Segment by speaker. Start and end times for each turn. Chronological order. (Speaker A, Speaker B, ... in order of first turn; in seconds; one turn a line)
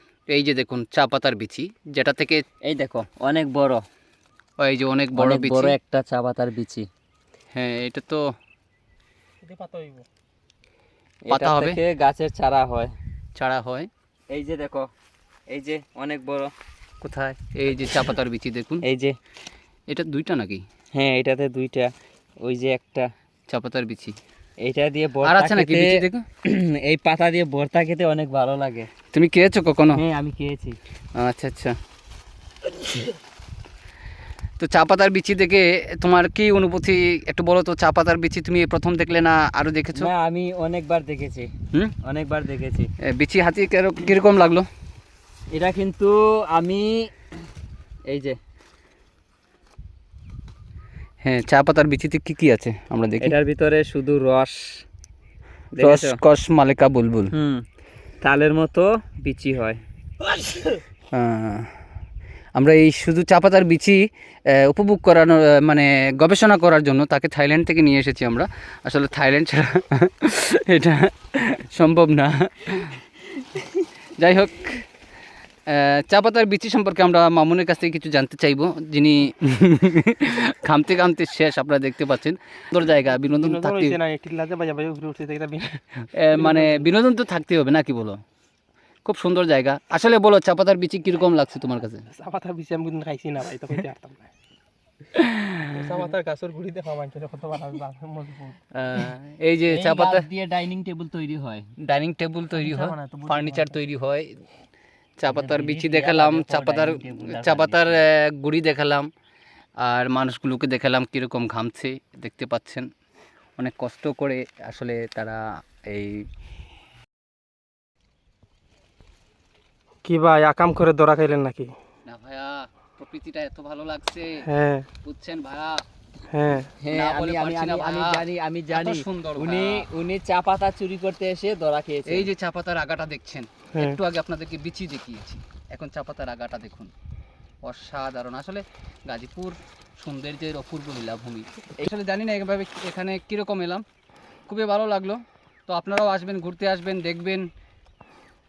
Speaker A: 0.3-2.4
Speaker B: 2.6-3.8
Speaker A: 4.6-5.8
Speaker B: 5.2-6.9
Speaker A: 7.5-8.2
Speaker C: 9.4-10.1
Speaker B: 11.3-12.9
Speaker A: 11.3-11.8
Speaker A: 13.4-13.9
Speaker B: 14.3-14.9
Speaker B: 15.5-16.5
Speaker A: 17.0-18.8
Speaker B: 18.8-19.1
Speaker A: 19.9-20.6
Speaker B: 20.9-23.1
Speaker A: 23.5-24.2
Speaker B: 24.6-28.9
Speaker A: 25.2-26.2
Speaker A: 29.1-30.0
Speaker B: 29.9-30.8
Speaker A: 31.2-31.8
Speaker A: 34.6-40.1
Speaker B: 40.0-41.5
Speaker B: 42.0-42.9
Speaker A: 43.0-44.7
Speaker B: 45.5-47.1
Speaker B: 48.1-48.4
Speaker A: 51.2-53.4
Speaker B: 53.2-54.8
Speaker B: 55.7-56.2
Speaker A: 55.8-57.3
Speaker B: 57.3-57.6
Speaker B: 58.2-60.8
Speaker A: 61.1-61.7
Speaker A: 62.6-64.0
Speaker A: 64.6-73.0
Speaker A: 74.2-74.8
Speaker A: 75.7-84.0
Speaker C: 83.3-85.8
Speaker A: 86.0-88.2
Speaker C: 86.3-86.9
Speaker A: 89.0-92.0
Speaker C: 92.1-94.3
Speaker A: 95.1-96.0
Speaker C: 95.7-98.6
Speaker A: 98.7-100.2
Speaker B: 99.7-101.7
Speaker A: 101.8-104.3
Speaker B: 102.6-103.5
Speaker C: 103.4-103.7
Speaker A: 105.2-109.1
Speaker B: 105.3-108.0
Speaker A: 109.8-112.9
Speaker A: 113.6-116.2
Speaker C: 120.0-121.7
Speaker A: 122.1-124.5
Speaker C: 124.4-124.9
Speaker A: 125.0-125.8
Speaker C: 126.3-126.7
Speaker B: 126.8-132.3
Speaker A: 126.9-128.2
Speaker A: 128.7-129.9
Speaker A: 132.1-136.9
Speaker A: 137.7-143.8
Speaker A: 144.5-147.5